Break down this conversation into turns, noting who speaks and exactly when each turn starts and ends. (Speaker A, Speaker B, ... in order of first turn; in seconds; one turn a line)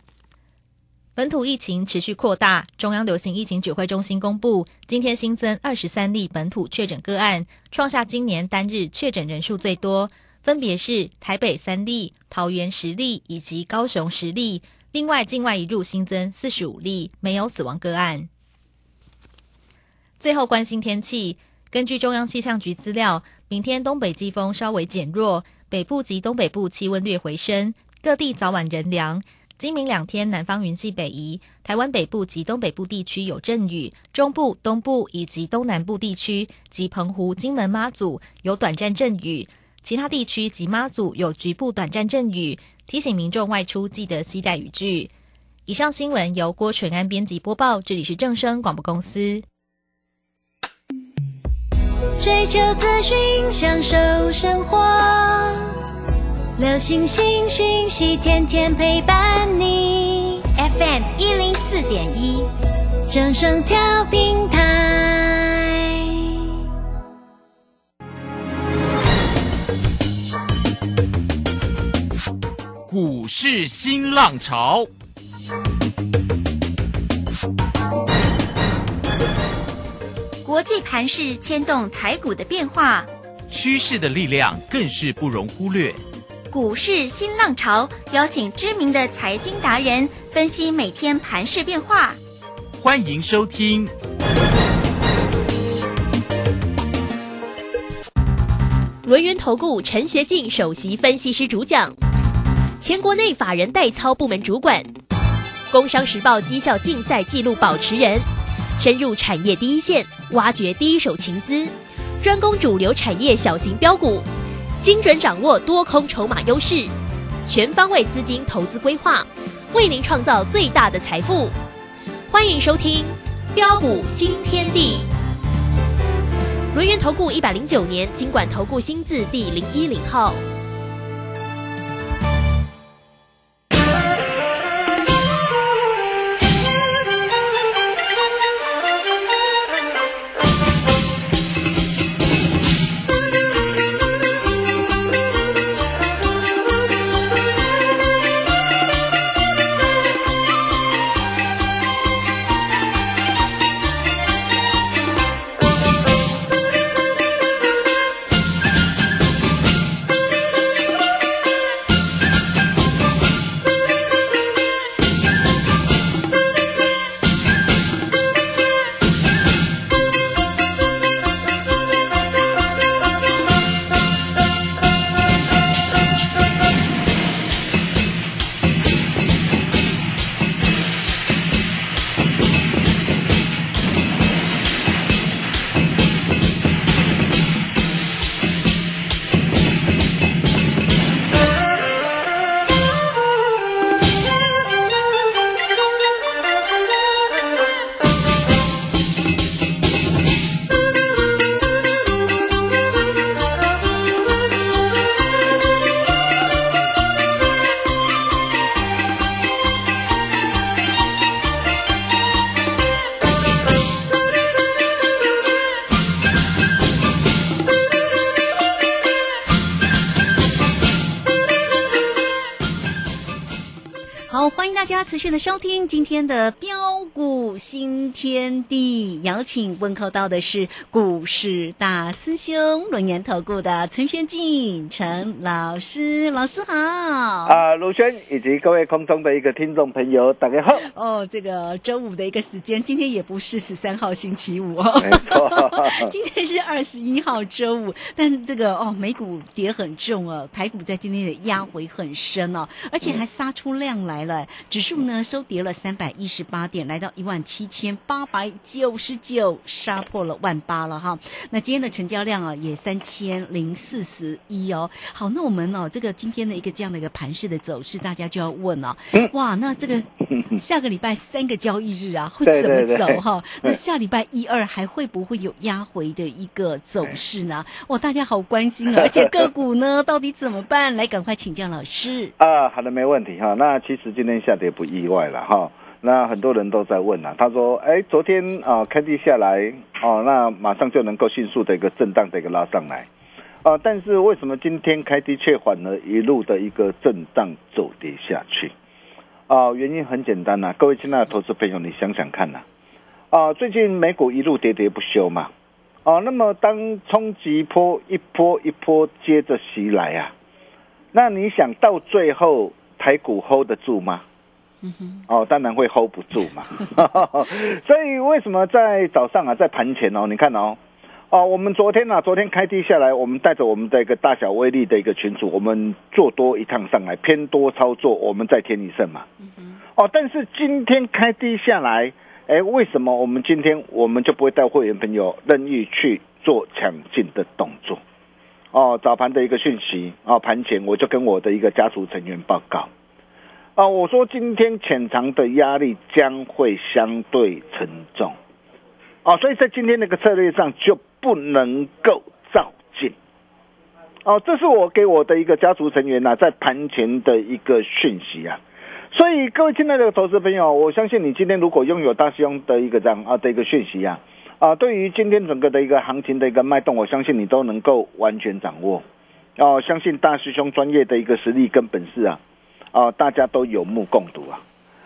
Speaker A: 1.1-18.3
Speaker A: 20.2-45.1
Speaker A: 45.6-49.4
Speaker B: 52.2-55.7
Speaker B: 56.6-60.5
Speaker C: 60.5-62.5
Speaker B: 63.1-66.6
Speaker D: 72.9-74.9
Speaker C: 80.4-83.1
Speaker D: 83.5-86.0
Speaker C: 86.5-92.2
Speaker D: 92.8-93.9
Speaker E: 99.0-101.9
Speaker E: 102.8-104.9
Speaker E: 105.7-108.3
Speaker E: 108.8-114.3
Speaker E: 114.8-116.9
Speaker E: 117.4-121.5
Speaker E: 122.3-125.1
Speaker E: 126.7-130.4
Speaker F: 224.3-237.6
Speaker G: 237.4-240.9
Speaker F: 240.7-282.3
Speaker G: 245.0-246.1
Speaker G: 272.4-273.8
Speaker G: 279.0-279.4
Speaker G: 282.4-293.1
Speaker G: 293.6-298.7
Speaker G: 299.5-302.6
Speaker G: 303.3-305.5
Speaker G: 306.0-310.3
Speaker G: 311.1-314.2
Speaker F: 314.8-315.2
Speaker G: 315.3-320.8
Speaker G: 321.3-329.2
Speaker F: 329.4-329.8
Speaker G: 330.0-338.0
Speaker G: 338.7-342.9
Speaker G: 343.8-348.3
Speaker G: 349.2-353.1
Speaker G: 354.2-358.6
Speaker G: 359.1-369.0
Speaker G: 369.6-372.4
Speaker G: 372.9-374.6